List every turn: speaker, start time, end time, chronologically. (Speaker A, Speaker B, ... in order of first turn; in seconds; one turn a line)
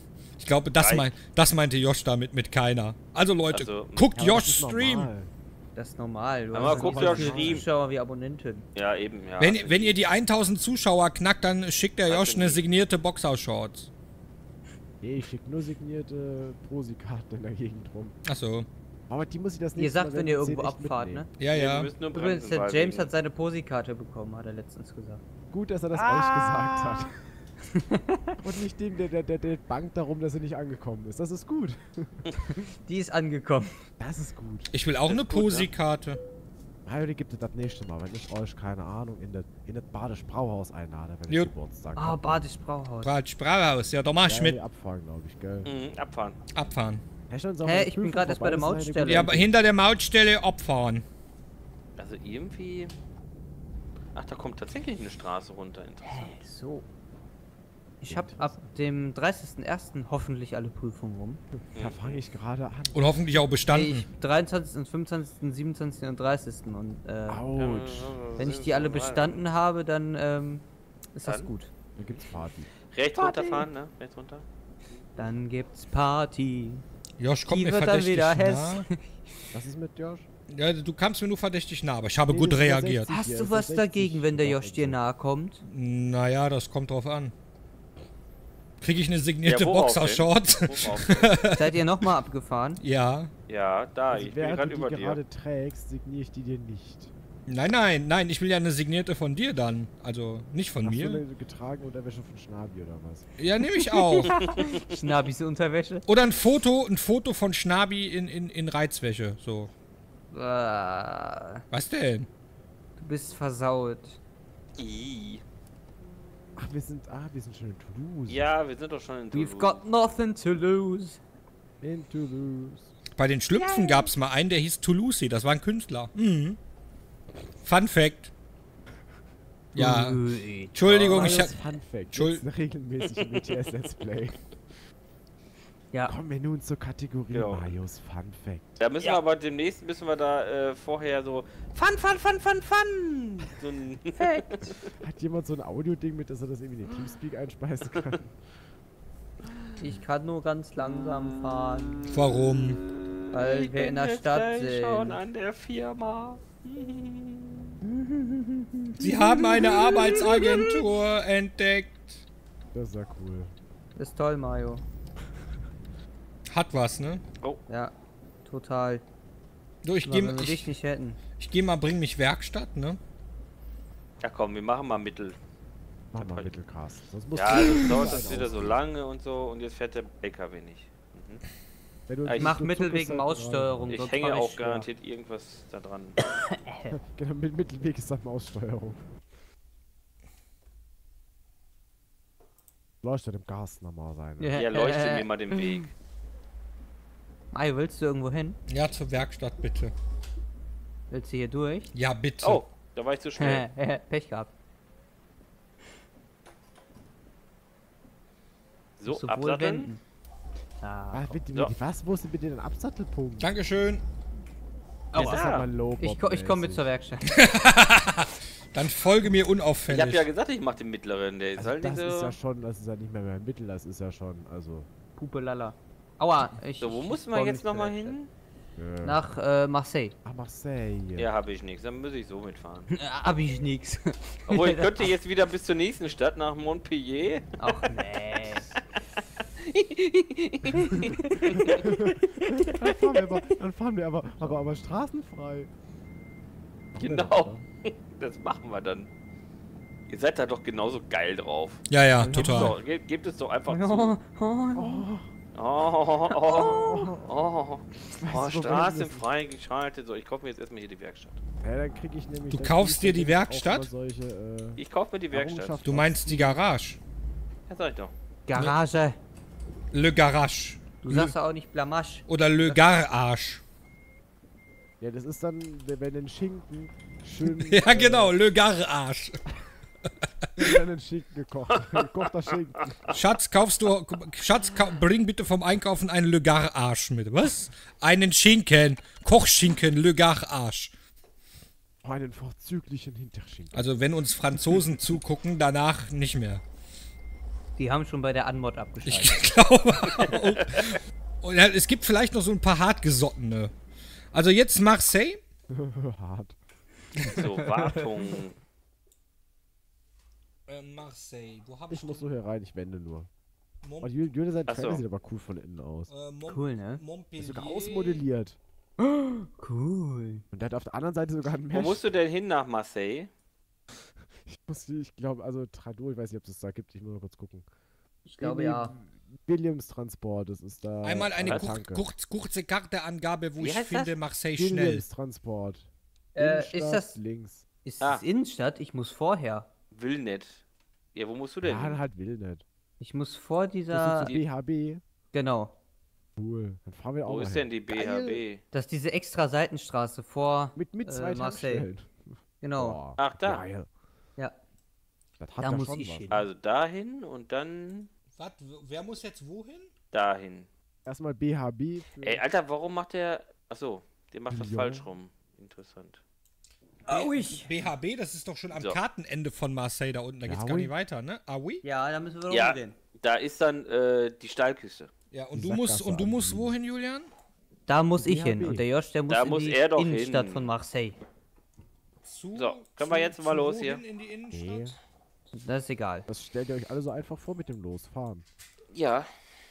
Speaker A: 0.4-5.1
Speaker B: 0.8-1.1
Speaker B: 3.5-4.1
Speaker C: 4.1-5.3
Speaker D: 5.7-8.7
Speaker B: 6.5-7.7
Speaker C: 6.6-7.7
Speaker B: 8.7-10.0
Speaker A: 9.4-13.9
Speaker B: 12.1-12.6
Speaker C: 15.0-18.1
Speaker A: 18.2-18.7
Speaker C: 19.1-21.2
Speaker D: 19.8-21.3
Speaker A: 21.4-21.9
Speaker B: 21.5-23.1
Speaker D: 22.1-25.2
Speaker C: 25.5-27.1
Speaker D: 26.4-27.0
Speaker D: 27.7-28.4
Speaker C: 28.4-32.2
Speaker D: 32.8-33.7
Speaker C: 34.0-34.7
Speaker A: 34.7-36.2
Speaker B: 35.1-35.7
Speaker C: 36.8-42.5
Speaker D: 42.0-43.1
Speaker A: 43.0-44.6
Speaker C: 44.2-45.7
Speaker B: 45.6-46.4
Speaker A: 46.5-47.0
Speaker C: 47.3-49.5
Speaker D: 47.6-49.3
Speaker A: 49.0-51.0
Speaker B: 52.0-52.9
Speaker B: 54.1-56.4
Speaker D: 56.0-56.9
Speaker D: 58.0-61.4
Speaker C: 58.1-58.7
Speaker C: 61.5-63.5
Speaker B: 61.7-62.2
Speaker A: 62.9-64.0
Speaker D: 63.7-67.5
Speaker C: 67.3-68.2
Speaker B: 67.5-69.4
Speaker D: 68.4-71.7
Speaker B: 71.2-71.5
Speaker C: 72.0-72.7
Speaker B: 72.9-74.5
Speaker D: 73.1-73.7
Speaker D: 75.2-76.8
Speaker A: 77.2-78.8
Speaker D: 77.5-79.1
Speaker C: 79.5-80.3
Speaker A: 80.5-83.1
Speaker C: 82.3-85.0
Speaker D: 83.1-85.6
Speaker A: 85.6-87.3
Speaker A: 88.8-91.7
Speaker B: 89.4-91.3
Speaker D: 91.5-92.8
Speaker A: 92.8-93.3
Speaker B: 93.5-95.2
Speaker C: 94.1-97.1
Speaker A: 97.5-101.2
Speaker C: 100.8-103.3
Speaker A: 103.4-104.3
Speaker D: 103.6-106.0
Speaker B: 104.3-105.0
Speaker A: 106.1-109.7
Speaker D: 110.3-111.6
Speaker A: 111.7-112.3
Speaker D: 113.0-114.2
Speaker B: 114.8-115.4
Speaker C: 116.6-118.5
Speaker B: 118.3-119.8
Speaker D: 119.3-121.2
Speaker C: 121.8-122.9
Speaker A: 123.2-126.6
Speaker D: 123.5-124.0
Speaker A: 127.6-128.3
Speaker A: 129.7-130.2
Speaker D: 129.8-131.5
Speaker A: 130.7-131.6
Speaker B: 130.9-131.3
Speaker C: 131.1-134.5
Speaker A: 132.1-132.4
Speaker B: 133.1-133.4
Speaker C: 136.0-138.8
Speaker B: 137.3-137.8
Speaker B: 138.8-144.7
Speaker D: 144.2-144.6
Speaker C: 144.8-148.3
Speaker D: 149.8-152.0
Speaker A: 152.1-152.8
Speaker B: 153.1-157.8
Speaker D: 153.3-155.2
Speaker D: 157.8-160.2
Speaker A: 159.0-162.2
Speaker B: 159.9-160.6
Speaker C: 162.7-163.5
Speaker D: 163.9-164.8
Speaker A: 166.5-167.2
Speaker D: 167.7-169.0
Speaker A: 169.8-170.7
Speaker D: 170.0-171.2
Speaker A: 171.4-173.0
Speaker B: 174.2-175.4
Speaker C: 176.1-178.8
Speaker B: 176.2-176.5
Speaker B: 177.3-181.4
Speaker C: 182.1-184.0
Speaker B: 182.2-182.5
Speaker D: 182.4-184.9
Speaker B: 183.9-186.2
Speaker D: 186.5-186.9
Speaker C: 186.9-189.0
Speaker C: 193.0-194.5
Speaker D: 194.4-195.8
Speaker B: 194.5-195.9
Speaker D: 197.5-198.6
Speaker A: 198.7-199.9
Speaker D: 201.1-201.9
Speaker A: 201.9-202.6
Speaker B: 202.4-203.7
Speaker D: 203.3-204.5
Speaker B: 209.0-209.9
Speaker D: 209.1-210.0
Speaker D: 210.8-211.4
Speaker C: 211.1-213.6
Speaker A: 213.4-214.0
Speaker C: 215.1-216.9
Speaker D: 215.1-217.4
Speaker B: 215.1-215.7
Speaker A: 217.3-220.3
Speaker B: 219.9-222.3
Speaker C: 221.6-224.9
Speaker D: 225.2-228.2
Speaker B: 226.8-228.3
Speaker C: 228.8-229.3
Speaker D: 229.0-230.1
Speaker C: 230.2-231.3
Speaker B: 231.2-232.9
Speaker D: 232.9-235.1
Speaker B: 234.5-237.9
Speaker D: 237.6-238.7
Speaker B: 239.7-241.8
Speaker D: 240.7-241.9
Speaker C: 241.6-245.7
Speaker C: 246.9-247.6
Speaker B: 247.0-249.1
Speaker B: 250.1-254.1
Speaker A: 251.9-252.7
Speaker C: 252.2-252.7
Speaker D: 253.7-255.1
Speaker C: 254.7-255.3
Speaker B: 255.5-261.4
Speaker D: 256.5-257.1
Speaker C: 256.6-257.3
Speaker C: 258.1-259.2
Speaker C: 261.6-266.6
Speaker A: 262.5-263.9
Speaker B: 264.8-265.8
Speaker A: 265.8-267.0
Speaker B: 267.7-268.1
Speaker D: 268.5-269.2
Speaker A: 269.9-271.3
Speaker D: 271.0-272.8
Speaker A: 272.3-273.6
Speaker C: 275.0-278.4
Speaker A: 277.4-279.4
Speaker C: 280.6-283.0
Speaker A: 283.1-290.9
Speaker C: 292.0-293.9
Speaker A: 293.7-296.6
Speaker D: 297.8-299.4
Speaker A: 299.0-303.7
Speaker B: 300.1-300.8
Speaker A: 304.3-305.4
Speaker C: 305.7-306.6
Speaker B: 307.3-308.6
Speaker A: 310.7-312.2
Speaker C: 311.9-313.3
Speaker A: 313.8-314.1
Speaker C: 314.0-316.1
Speaker B: 314.7-315.0
Speaker A: 316.1-318.2
Speaker D: 316.4-317.0
Speaker C: 317.4-318.6
Speaker D: 319.0-320.4
Speaker C: 320.5-322.0
Speaker B: 321.7-323.3
Speaker C: 324.5-327.6
Speaker D: 328.2-328.9
Speaker C: 328.4-332.1
Speaker A: 331.0-335.1
Speaker B: 333.6-334.1
Speaker C: 334.5-337.6
Speaker D: 336.3-337.1
Speaker D: 337.8-339.7
Speaker B: 339.9-340.6
Speaker B: 341.1-342.0
Speaker C: 341.6-342.6
Speaker D: 343.0-344.3
Speaker C: 343.9-345.0
Speaker D: 345.3-345.7
Speaker C: 346.4-348.4
Speaker B: 347.2-348.6
Speaker D: 348.7-351.9
Speaker C: 350.7-353.9
Speaker D: 352.6-353.0
Speaker B: 353.2-353.6
Speaker C: 355.4-356.3
Speaker D: 355.6-356.5
Speaker B: 356.3-358.1
Speaker A: 358.4-359.9
Speaker B: 360.1-360.7
Speaker C: 361.0-362.4
Speaker B: 362.2-366.2
Speaker C: 364.5-365.1
Speaker D: 367.1-367.7
Speaker A: 367.1-371.8
Speaker B: 368.7-369.0
Speaker C: 370.4-370.9
Speaker D: 371.8-373.0
Speaker B: 372.5-375.1
Speaker A: 375.3-377.3
Speaker C: 375.5-376.8
Speaker D: 377.9-381.2
Speaker C: 378.1-378.9
Speaker B: 379.3-380.7
Speaker A: 382.2-384.9
Speaker B: 382.5-384.0
Speaker C: 384.5-384.9
Speaker D: 385.5-386.2
Speaker C: 386.3-388.4
Speaker B: 388.9-389.3